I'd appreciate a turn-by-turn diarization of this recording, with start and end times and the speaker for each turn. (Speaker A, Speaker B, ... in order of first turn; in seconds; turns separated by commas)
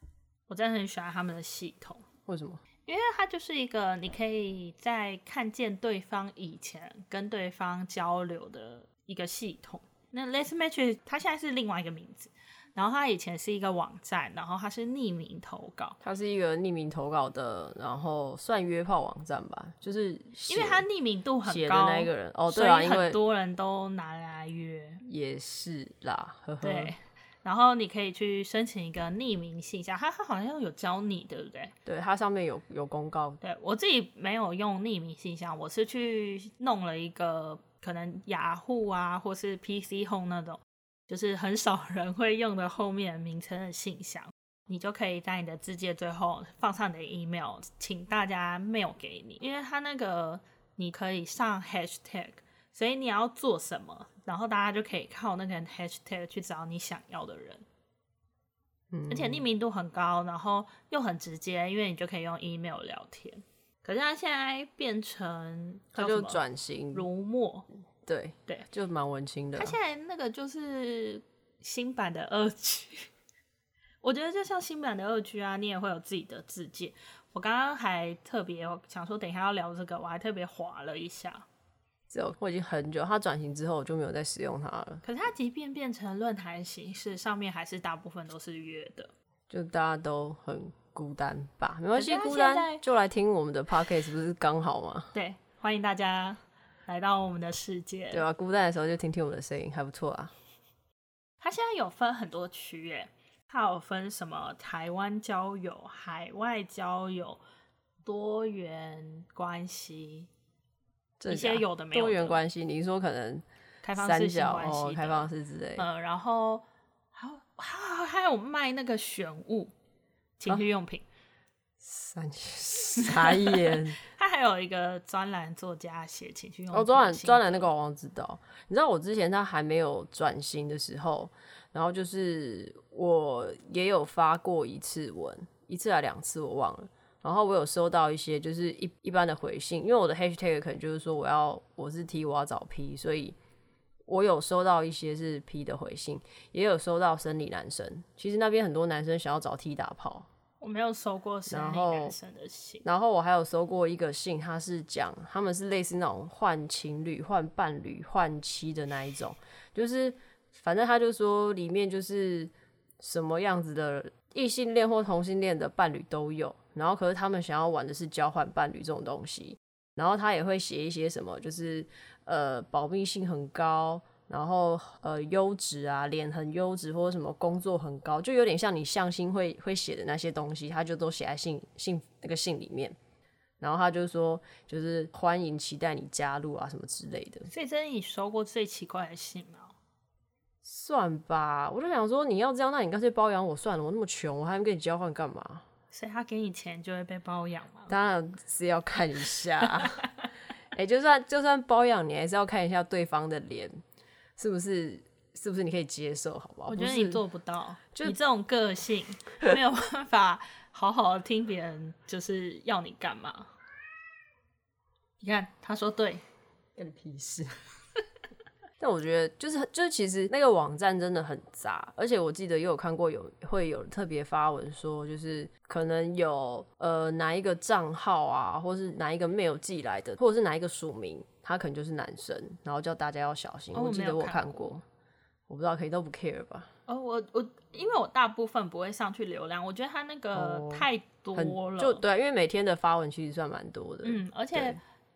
Speaker A: 0.5-2.0, Speaker B: 2.3-2.6, Speaker A: 2.9-16.0, Speaker B: 16.0-20.9, Speaker A: 20.5-25.0, Speaker B: 21.5-23.2, Speaker B: 25.0-26.9, Speaker A: 26.6-31.7, Speaker B: 31.9-33.4, Speaker A: 33.4-57.6, Speaker B: 58.9-59.4, Speaker A: 59.1-66.4, Speaker B: 66.0-67.1, Speaker A: 66.9-67.7, Speaker B: 68.1-69.8, Speaker A: 69.6-73.1, Speaker A: 74.0-81.5, Speaker B: 82.1-85.0, Speaker A: 85.0-89.1, Speaker B: 89.5-95.1, Speaker A: 91.9-92.8, Speaker A: 95.1-98.2, Speaker B: 98.1-100.3, Speaker A: 101.4-107.4, Speaker A: 108.0-110.3, Speaker B: 111.2-113.4, Speaker A: 111.3-112.4, Speaker A: 113.8-119.7, Speaker B: 114.0-115.9, Speaker A: 120.4-121.1, Speaker B: 121.8-124.0, Speaker A: 123.0-127.7, Speaker B: 126.7-143.4, Speaker B: 144.1-150.3, Speaker A: 150.6-152.8, Speaker B: 151.5-152.2, Speaker B: 152.8-183.0, Speaker B: 183.6-187.5, Speaker A: 187.5-189.7, Speaker B: 190.6-195.7, Speaker A: 195.9-197.9, Speaker B: 197.9-200.1, Speaker A: 199.7-200.0, Speaker B: 200.7-203.8, Speaker B: 204.4-207.2, Speaker A: 206.7-213.5, Speaker A: 215.2-216.2, Speaker B: 216.8-217.6, Speaker B: 218.8-234.8, Speaker A: 233.7-234.6, Speaker B: 235.5-236.7, Speaker A: 236.9-242.0, Speaker B: 240.3-244.8, Speaker A: 244.0-244.8